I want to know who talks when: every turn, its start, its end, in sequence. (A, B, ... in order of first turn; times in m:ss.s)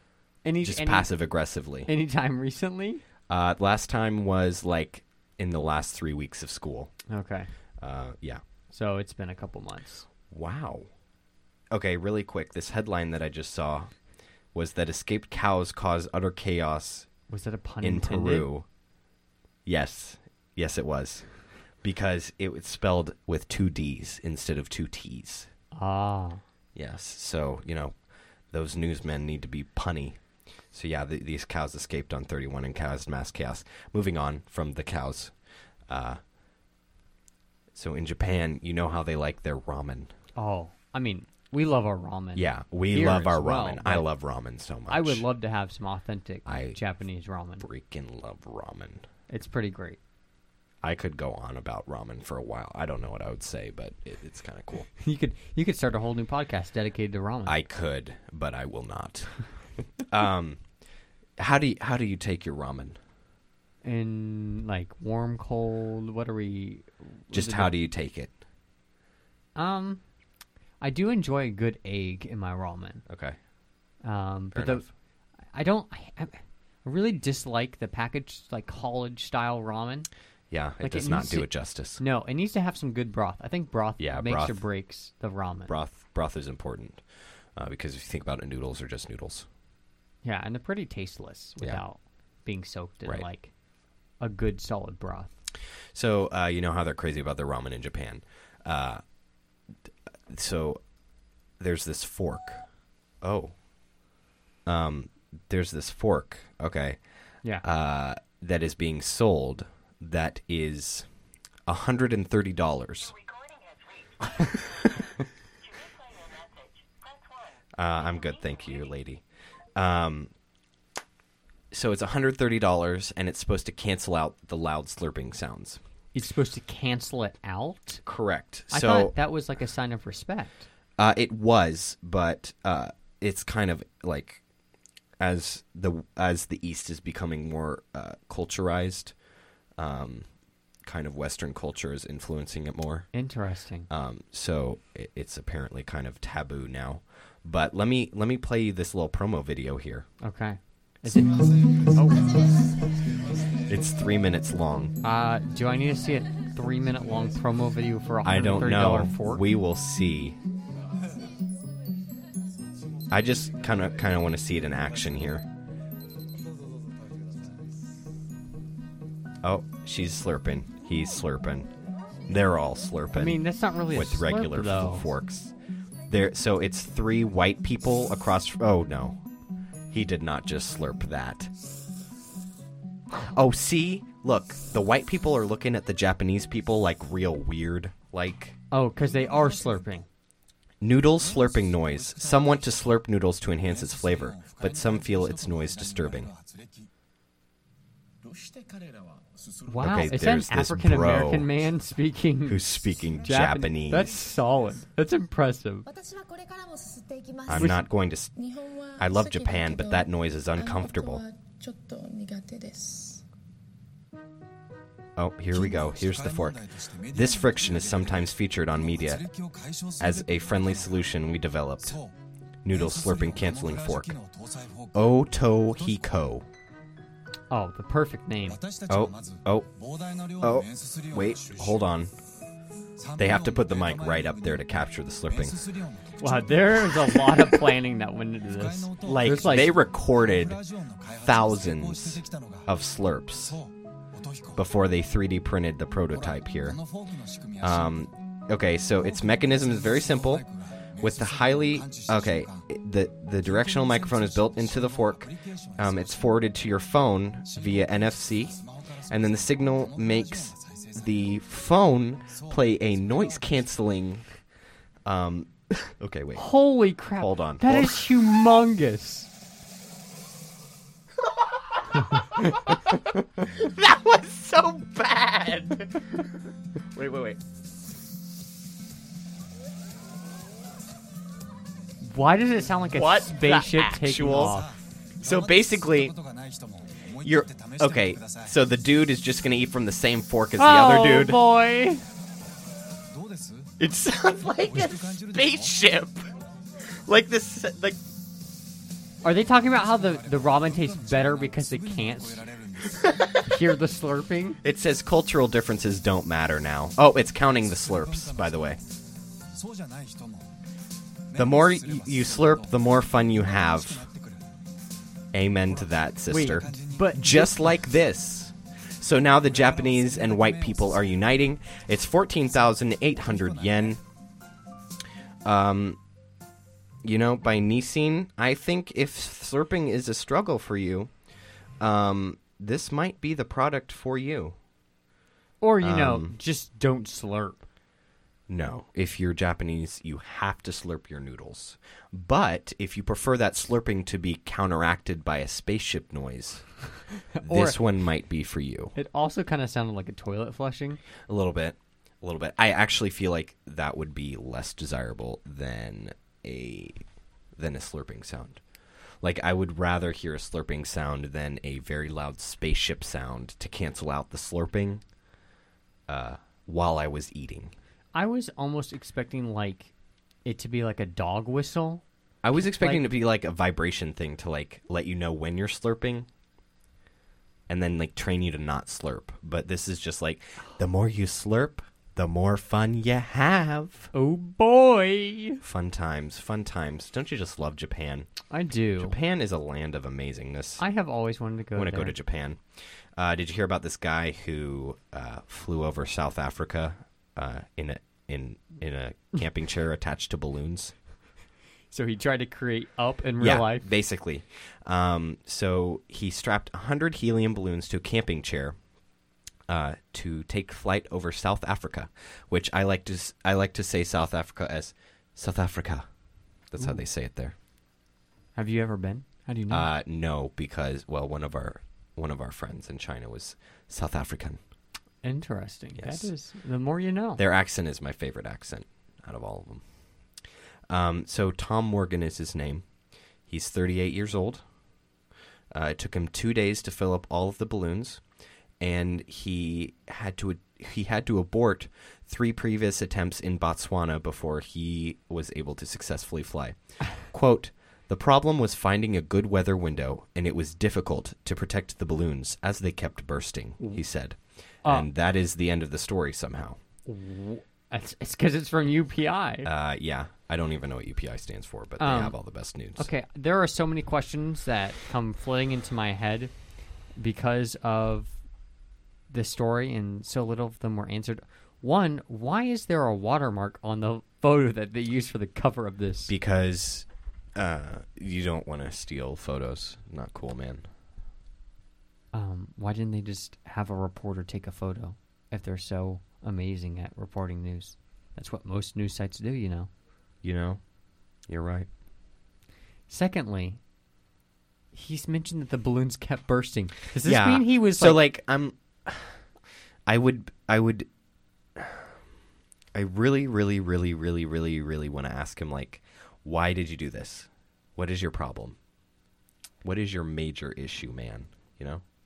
0:00.4-0:01.1 A
0:00.6-0:01.9 B
0:01.8-0:03.0 A
0:03.3-0:06.9 B
0:07.1-0:07.5 A
0:07.8-0:08.4 B
0:08.7-0:10.1 A
0:10.3-0:10.9 B
0:11.7-0:13.9 B
0:14.5-0:17.1 B
0:17.3-0:18.5 A
0:17.8-0:18.7 B
0:19.6-0:25.5 B
0:25.7-0:26.4 A
0:26.7-0:28.0 B
0:28.5-0:30.2 B
0:30.7-0:35.3 B
0:35.9-0:36.2 B
0:37.7-0:40.1 B
0:40.4-0:44.1 A
0:42.3-0:45.2 B
0:44.9-0:47.6 A
0:46.4-0:46.8 B
0:47.6-0:49.0 B
0:49.3-0:50.0 A
0:50.8-0:54.9 B
0:55.0-0:57.6 A
0:57.5-0:59.4 B
1:00.0-1:00.6 B
1:01.4-1:03.0 B
1:03.8-1:07.7 A
1:07.3-1:08.3 B
1:09.5-1:10.0 A
1:10.8-1:13.0 A
1:13.1-1:13.4 B
1:14.0-1:14.8 A
1:14.5-1:14.9 B
1:15.5-1:20.1 A
1:20.5-1:22.0 B
1:20.8-1:25.7 A
1:24.0-1:24.6 B
1:25.7-1:27.0 B
1:27.6-1:29.5 B
1:30.2-1:33.5 A
1:34.2-1:35.3 A
1:35.9-1:39.0 B
1:40.3-1:40.8 B
1:41.6-1:42.7 B
1:43.2-1:43.6 B
1:44.6-1:47.0 B
1:47.6-1:51.1 B
1:51.6-1:53.1 B
1:53.1-1:58.6 C
1:57.8-1:59.2 B
1:59.8-2:00.3 B
2:01.7-2:05.8 B
2:06.1-2:08.0 A
2:08.0-2:09.1 B
2:08.7-2:10.6 A
2:11.0-2:14.4 B
2:15.2-2:19.1 B
2:19.8-2:20.3 B
2:20.8-2:23.1 B
2:23.1-2:23.9 A
2:23.9-2:30.1 B
2:30.2-2:32.5 A
2:31.4-2:33.0 D
2:33.7-2:34.9 B
2:35.0-2:39.4 A
2:38.2-2:40.4 B
2:43.1-2:45.4 B
2:49.4-2:51.7 B
2:52.3-2:53.4 B
2:53.1-2:55.0 A
2:53.9-2:55.5 B
2:56.1-2:59.2 B
2:59.9-3:01.5 B
3:03.1-3:08.6 B
3:08.7-3:10.1 A
3:09.1-3:09.8 E
3:10.8-3:16.3 B
3:11.1-3:13.0 E
3:13.5-3:16.9 E
3:18.3-3:20.1 E
3:19.6-3:25.8 A
3:19.8-3:21.5 B
3:22.4-3:24.2 B
3:25.8-3:33.2 D
3:27.5-3:28.3 B
3:27.5-3:27.8 A
3:29.0-3:31.2 B
3:35.2-3:36.6 B
3:35.6-3:41.0 E
3:37.1-3:39.2 B
3:40.0-3:42.0 B
3:41.8-3:42.1 E
3:42.6-3:44.2 B
3:42.7-3:45.0 E
3:44.9-3:46.4 B
3:45.8-3:46.0 E
3:47.5-3:48.6 A
3:48.5-3:51.8 E
3:48.9-3:49.7 B
3:50.4-3:52.1 B
3:53.0-3:54.6 E
3:53.2-3:55.6 B
3:55.3-3:57.2 E
3:56.2-3:59.8 A
3:58.5-4:02.7 E
3:59.0-4:00.6 B
4:01.2-4:03.6 B
4:03.5-4:04.6 E
4:04.6-4:06.8 B
4:06.1-4:08.0 E
4:07.6-4:10.4 B
4:09.0-4:12.6 E
4:11.0-4:24.3 B
4:13.4-4:16.3 E
4:17.5-4:21.2 E
4:22.3-4:23.5 E
4:25.0-4:26.5 B
4:26.3-4:29.3 A
4:27.2-4:28.2 B
4:31.9-4:36.1 B
4:36.9-4:37.4 B
4:42.0-4:44.7 A
4:42.9-4:44.6 B
4:44.3-4:48.5 E
4:45.2-4:46.1 B
4:47.2-4:51.4 B
4:50.6-4:52.0 A
4:53.1-4:53.7 E
4:53.8-4:56.3 B
4:54.7-4:55.8 E
4:57.0-4:58.0 B
4:59.2-5:02.4 A
4:59.8-5:03.2 E
5:03.0-5:03.5 B
5:03.4-5:04.6 A
5:04.6-5:08.8 B
5:07.5-5:08.7 E
5:09.5-5:10.5 E
5:11.3-5:14.5 E
5:11.4-5:14.1 B
5:15.3-5:24.0 B
5:15.7-5:17.1 E
5:16.3-5:17.8 A
5:19.4-5:21.2 E
5:23.1-5:24.0 E
5:25.4-5:26.0 B
5:27.0-5:31.1 B
5:31.8-5:34.6 B
5:35.6-5:37.6 A
5:35.8-5:36.3 B
5:38.5-5:46.7 B
5:47.3-5:47.8 A
5:47.4-5:48.9 B
5:48.9-5:51.0 A
5:51.3-5:57.0 B
5:57.6-5:58.6 B
5:59.2-6:05.0 B
6:06.1-6:07.7 B
6:08.1-6:09.9 A
6:10.4-6:12.0 A
6:12.4-6:16.3 B
6:12.6-6:13.0 A
6:17.7-6:24.1 B
6:24.1-6:25.6 A
6:25.6-6:28.3 B
6:28.5-6:29.2 A
6:29.0-6:30.8 B
6:30.8-6:32.1 A
6:31.7-6:32.6 B
6:33.2-6:40.9 B
6:41.9-6:43.9 A
6:43.4-6:48.8 B
6:49.7-6:56.0 B
6:56.7-6:57.5 B
6:58.5-6:59.9 A
6:59.7-7:04.6 B
7:05.2-7:07.4 A
7:06.0-7:06.3 B
7:07.4-7:09.8 B
7:10.9-7:12.8 B
7:13.4-7:14.6 B
7:15.7-7:18.2 B
7:18.8-7:36.8 B
7:37.0-7:39.7 A
7:39.6-7:43.1 B
7:42.0-7:42.4 A
7:43.0-7:46.5 A
7:47.2-7:48.3 A
7:49.3-7:56.3 A
7:56.3-8:00.9 B
8:02.3-8:09.9 A
8:10.4-8:10.8 B
8:11.5-8:11.9 B
8:13.1-8:13.8 A
8:14.9-8:18.2 A
8:17.2-8:19.4 B
8:20.1-8:21.1 B
8:21.8-8:22.1 B
8:22.9-8:28.8 B
8:29.8-8:32.0 B